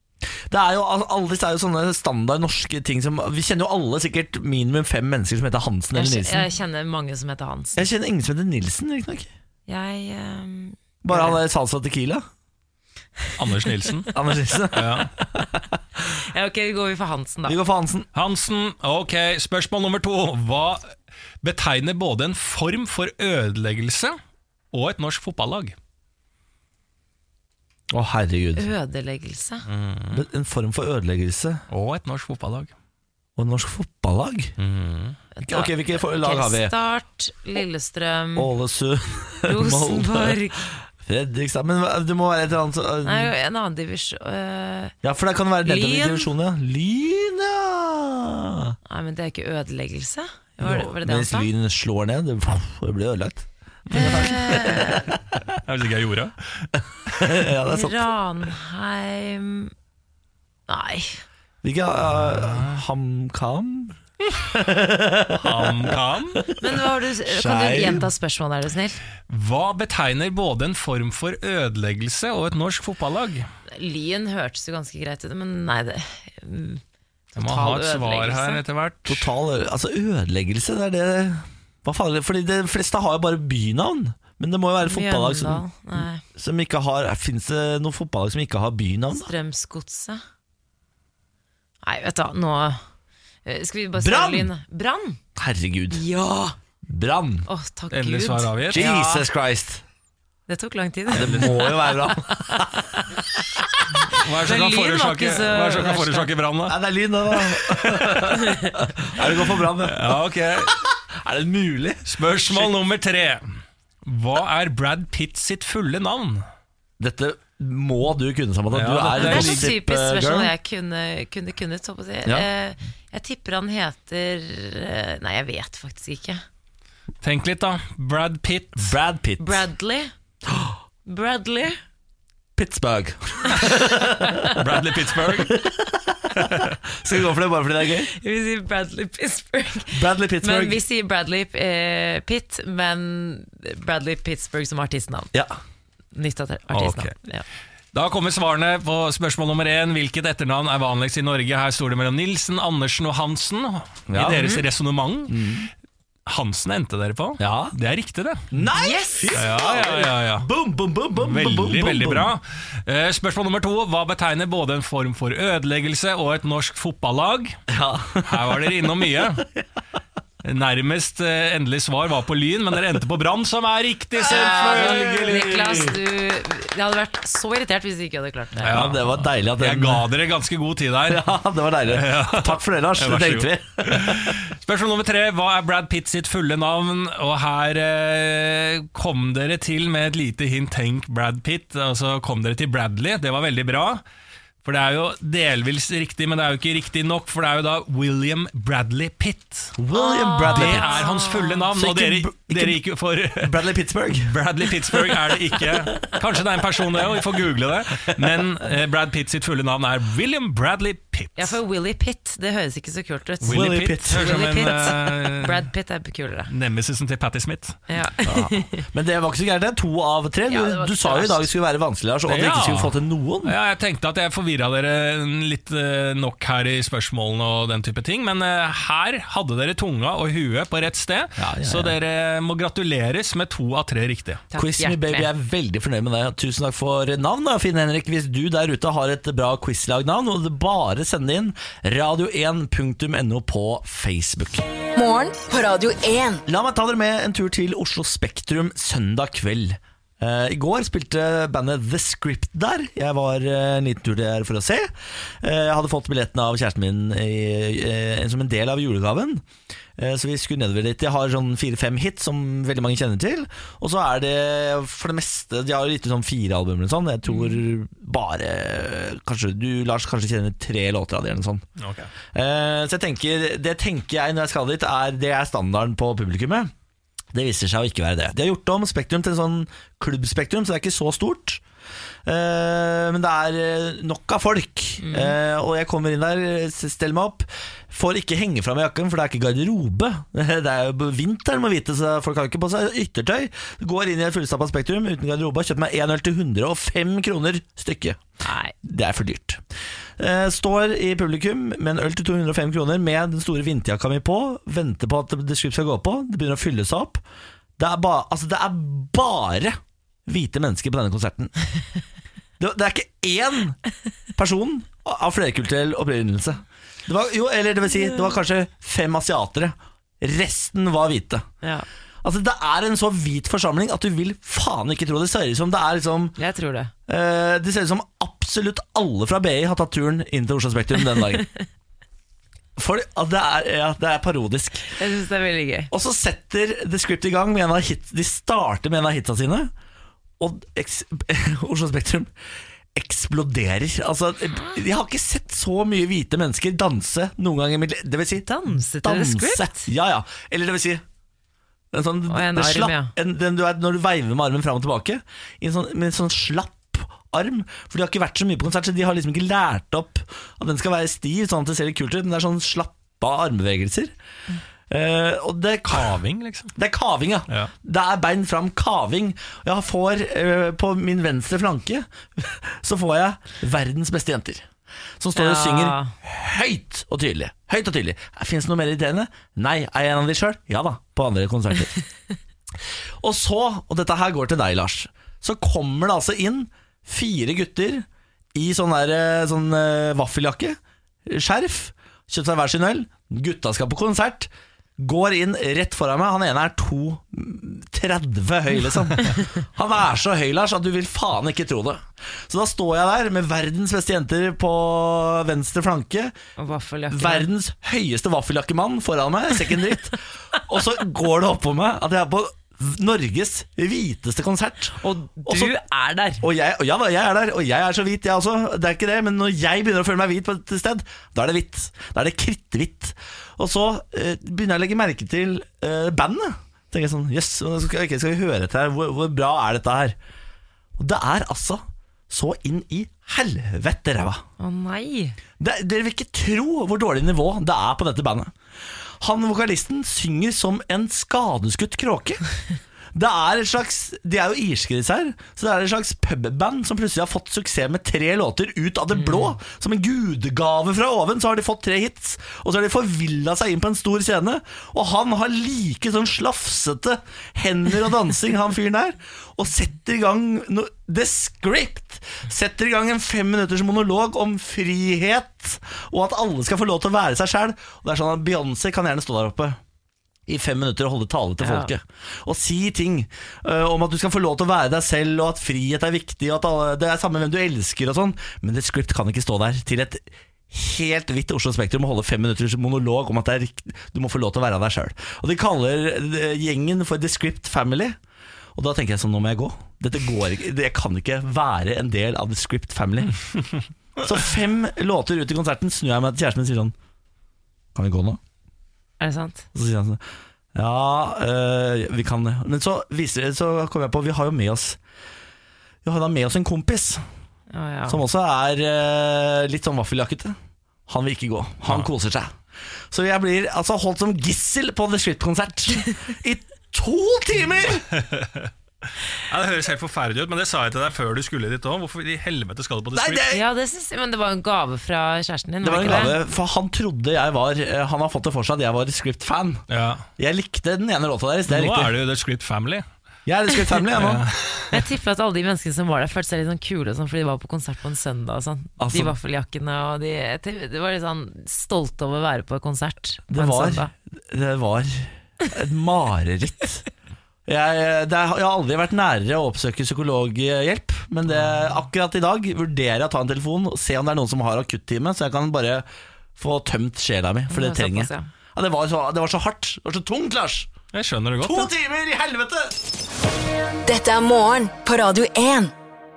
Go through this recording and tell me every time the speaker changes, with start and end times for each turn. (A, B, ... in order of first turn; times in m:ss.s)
0:00.5-0:06.5 A
0:06.0-0:07.9 B
0:07.8-0:09.3 A
0:09.7-0:11.4 B
0:11.0-0:12.2 A
0:13.4-0:14.1 C
0:14.1-0:15.6 A
0:14.7-0:15.1 C
0:16.1-0:17.6 B
0:17.5-0:18.1 A
0:18.1-0:24.2 C
0:24.7-0:25.8 C
0:27.9-0:28.7 A
0:28.6-0:29.6 B
0:29.6-0:30.2 C
0:30.1-0:31.6 A
0:31.7-0:32.7 C
0:33.4-0:34.5 A
0:34.6-0:35.2 C
0:35.4-0:38.5 B
0:35.4-0:36.7 A
0:38.4-0:43.3 A
0:39.4-0:40.6 B
0:43.0-0:45.0 B
0:45.0-0:48.8 A
0:45.6-0:46.3 B
0:48.9-0:51.5 B
0:50.6-0:55.0 A
0:53.9-0:54.7 C
0:53.9-0:55.1 B
0:55.5-0:56.7 C
0:57.1-0:58.1 A
0:57.7-0:59.7 B
1:00.7-1:01.2 B
1:01.6-1:08.1 A
1:02.2-1:02.8 C
1:05.3-1:06.4 C
1:06.6-1:09.0 B
1:09.3-1:13.5 C
1:13.7-1:16.8 B
1:17.3-1:18.6 B
1:17.4-1:19.3 C
1:19.1-1:25.7 A
1:24.8-1:26.2 B
1:26.3-1:29.3 A
1:29.1-1:30.2 B
1:31.8-1:32.8 B
1:33.5-1:35.2 B
1:34.0-1:34.5 A
1:35.4-1:36.0 A
1:35.9-1:36.6 B
1:36.9-1:37.5 A
1:37.5-1:39.3 B
1:37.9-1:38.8 C
1:38.7-1:39.8 A
1:40.5-1:42.7 B
1:41.1-1:43.0 A
1:41.2-1:41.4 C
1:44.1-1:46.3 B
1:44.1-1:46.8 C
1:46.7-1:52.7 A
1:48.3-1:48.7 B
1:49.8-1:50.7 C
1:52.1-1:53.4 C
1:54.0-1:56.4 C
1:57.0-2:00.5 A
1:58.7-1:59.7 C
1:59.1-2:06.4 B
2:07.2-2:09.0 C
2:08.8-2:09.7 A
2:09.4-2:10.1 B
2:10.5-2:10.7 A
2:11.1-2:11.8 B
2:12.6-2:14.6 A
2:14.3-2:14.6 B
2:14.5-2:15.6 C
2:15.4-2:18.1 A
2:16.4-2:16.8 C
2:18.1-2:25.3 B
2:19.9-2:20.8 A
2:25.3-2:25.6 A
2:26.1-2:27.4 B
2:26.7-2:27.1 C
2:27.9-2:35.5 C
2:34.1-2:34.4 A
2:34.2-2:34.6 B
2:35.3-2:35.7 A
2:36.3-2:38.5 C
2:37.4-2:37.8 A
2:38.5-2:42.3 A
2:38.8-2:39.4 B
2:39.3-2:40.5 C
2:41.2-2:47.6 C
2:47.7-2:48.9 A
2:48.2-2:49.4 C
2:50.4-2:56.0 C
2:54.2-2:55.3 A
2:54.3-2:59.1 B
2:58.6-3:01.2 C
2:58.7-3:00.1 A
3:01.1-3:04.4 A
3:01.9-3:14.0 C
3:14.6-3:19.8 C
3:19.8-3:21.0 A
3:19.9-3:21.7 B
3:20.4-3:23.6 C
3:21.7-3:22.8 A
3:23.4-3:24.3 A
3:24.2-3:31.6 C
3:25.0-3:26.2 A
3:28.0-3:28.4 A
3:31.4-3:36.5 B
3:33.4-3:35.7 C
3:33.5-3:35.0 A
3:36.5-3:37.8 C
3:37.9-3:38.8 B
3:38.2-3:43.5 A
3:40.5-3:41.5 B
3:42.3-3:42.9 C
3:43.4-3:54.4 C
3:51.4-3:52.0 A
3:54.5-3:55.3 B
3:54.6-4:04.6 A
4:05.0-4:06.4 D
4:06.5-4:14.9 A
4:15.4-4:19.4 A
4:20.0-4:31.6 A
4:27.3-4:27.6 B
4:31.8-4:32.1 C
4:32.3-4:36.7 A
4:37.3-4:41.6 A
4:42.3-4:58.2 A
4:45.0-4:45.4 B
4:58.4-4:58.7 B
4:58.8-4:59.6 A
5:00.2-5:07.2 A
5:07.8-5:11.5 A
5:12.6-5:13.8 A
5:14.4-5:21.5 A
5:18.0-5:18.4 B
5:22.2-5:26.4 A
5:26.4-5:26.9 B
5:27.1-5:31.5 A
5:32.8-5:35.0 A
5:34.9-5:35.9 B
5:35.9-5:39.7 A
5:40.4-5:42.3 A
5:43.0-5:51.0 A
5:48.4-5:49.9 B
5:51.9-6:04.1 A
5:52.3-5:53.1 B
6:04.9-6:06.2 A
6:05.9-6:06.7 C
6:06.8-6:14.6 A
6:15.2-6:21.9 A
6:15.4-6:16.1 B
6:23.2-6:46.3 A
6:46.6-6:47.5 B
6:47.1-6:55.8 A
6:55.0-6:56.4 B
6:56.4-7:10.2 A
7:11.0-7:14.4 A
7:14.6-7:15.4 B
7:15.6-7:18.5 A
7:19.2-7:22.4 A
7:23.1-7:49.8 A
7:29.1-7:29.6 B
7:50.5-8:08.2 A
7:51.6-7:51.9 B
8:08.8-8:13.4 A
8:14.2-8:16.9 A
8:18.0-8:18.4 A
8:19.2-8:19.7 B
8:19.7-8:20.2 A
8:20.8-8:25.0 A
8:26.0-8:27.2 A
8:27.7-8:28.2 B
8:28.1-8:30.6 A
8:31.1-8:32.6 A
8:33.1-8:38.1 A
8:38.1-8:43.5 C
8:43.1-8:43.6 A
8:43.5-8:46.4 B
8:45.8-8:49.8 A
8:49.9-8:50.2 C
8:50.4-8:52.1 A
8:51.7-8:53.0 C
8:53.5-8:54.4 A
8:54.2-8:55.0 C
8:54.9-9:04.1 B
8:59.0-8:59.4 A
9:03.5-9:07.0 A
9:07.7-9:16.1 A
9:16.6-9:20.9 A
9:17.7-9:18.5 B
9:21.1-9:21.9 C
9:21.6-9:23.0 A
9:24.0-9:25.9 D